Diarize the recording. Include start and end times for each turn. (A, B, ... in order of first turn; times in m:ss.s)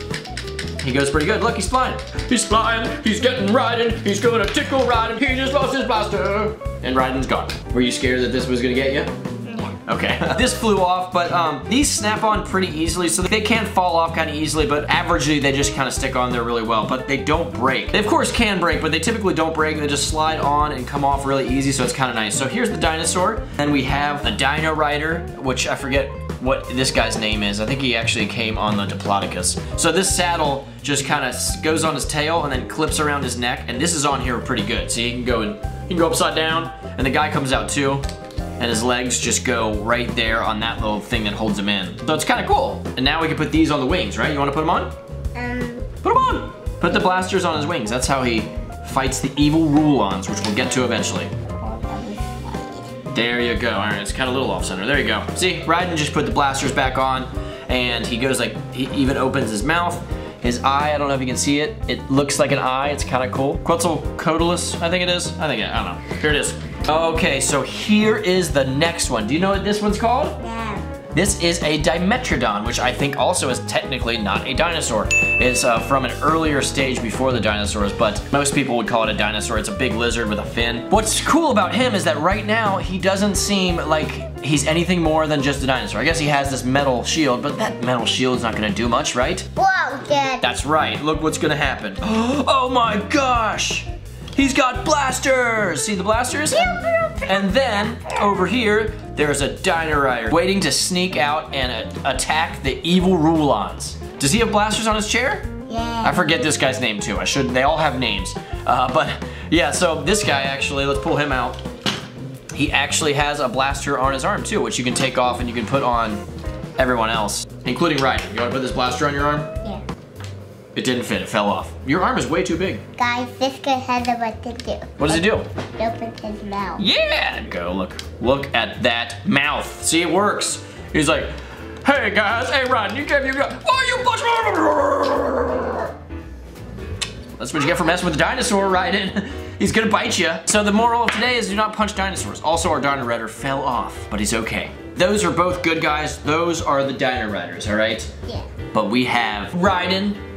0:00.8-0:09.1 A
0:09.5-0:09.8 B
0:09.9-0:38.0 A
0:38.6-0:44.9 A
0:45.3-0:45.9 B
0:46.0-0:51.3 A
0:51.6-0:52.9 B
0:53.1-1:10.4 A
1:10.4-1:10.8 B
1:11.1-1:29.4 A
1:29.6-1:30.5 B
1:30.4-1:45.5 A
1:36.6-1:37.2 B
1:45.7-1:46.2 B
1:46.0-1:51.6 A
1:52.5-1:56.2 A
1:56.8-1:59.5 A
2:00.7-2:02.8 A
2:03.0-2:05.2 B
2:05.0-2:05.5 A
2:05.8-2:06.8 B
2:06.8-2:15.9 A
2:17.4-2:28.1 A
2:28.7-2:30.2 A